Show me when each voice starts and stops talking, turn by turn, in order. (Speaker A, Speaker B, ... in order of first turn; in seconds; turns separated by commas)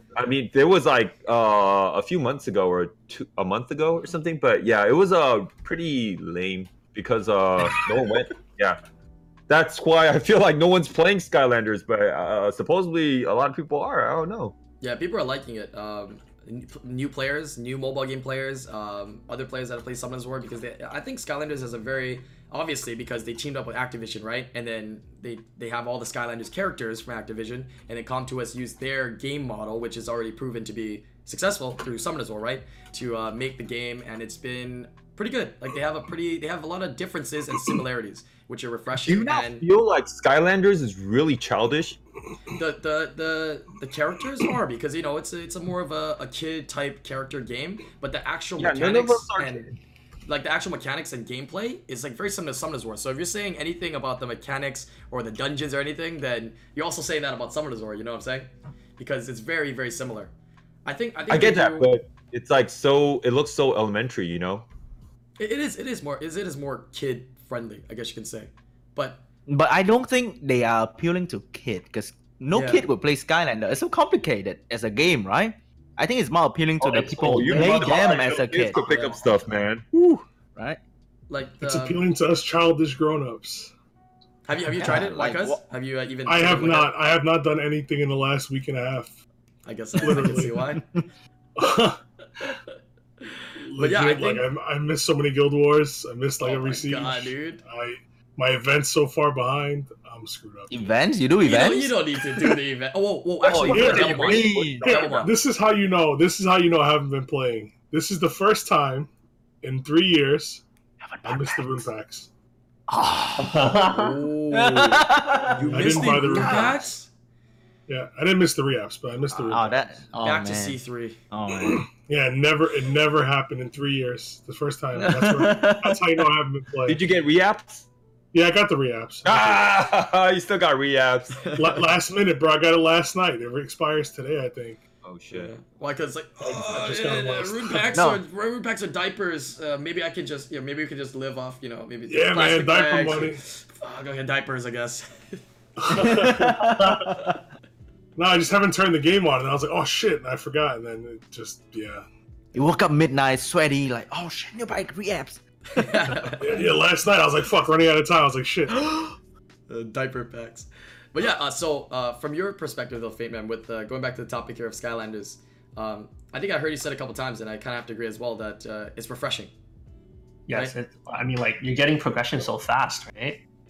Speaker A: 0.2-8.8, Speaker A: 9.5-14.5, Speaker B: 14.8-39.7, Speaker A: 39.0-42.0, Speaker B: 42.5-49.7, Speaker A: 48.6-49.7, Speaker B: 50.3-60.3, Speaker B: 60.9-61.9, Speaker A: 61.3-64.7, Speaker B: 65.4-69.2, Speaker C: 69.5-78.8, Speaker B: 72.5-72.9, Speaker D: 76.8-78.5, Speaker A: 77.2-80.2, Speaker B: 78.8-79.4, Speaker B: 81.3-82.0, Speaker E: 81.6-83.7, Speaker B: 84.5-87.0, Speaker C: 84.8-85.6, Speaker E: 86.3-89.1, Speaker B: 89.7-90.9, Speaker E: 90.0-90.7, Speaker E: 91.6-92.0, Speaker B: 93.3-94.5, Speaker E: 93.6-100.9, Speaker B: 96.4-97.6, Speaker C: 100.7-102.4, Speaker B: 101.4-105.3, Speaker A: 103.5-104.0, Speaker C: 103.5-105.0, Speaker E: 103.5-109.1, Speaker E: 109.6-110.6, Speaker C: 111.0-111.8, Speaker E: 111.2-112.3, Speaker C: 112.9-113.9, Speaker D: 113.4-114.2, Speaker B: 113.8-117.1, Speaker C: 114.5-116.9, Speaker E: 115.7-116.8, Speaker E: 117.9-120.0, Speaker C: 119.5-120.8, Speaker B: 120.2-121.2, Speaker C: 121.3-121.9, Speaker E: 121.8-127.0, Speaker C: 125.0-126.0, Speaker A: 126.9-127.9, Speaker E: 128.3-129.7, Speaker A: 129.2-131.4, Speaker B: 131.4-131.8, Speaker E: 131.5-134.8, Speaker A: 135.0-135.5, Speaker B: 135.3-146.3, Speaker E: 136.4-138.0, Speaker C: 137.9-138.2, Speaker E: 142.1-143.4, Speaker E: 145.8-147.2, Speaker C: 145.9-147.2, Speaker E: 148.2-152.1, Speaker C: 152.5-156.1, Speaker B: 155.7-156.6, Speaker E: 156.3-159.0, Speaker B: 159.7-169.5, Speaker D: 170.5-173.4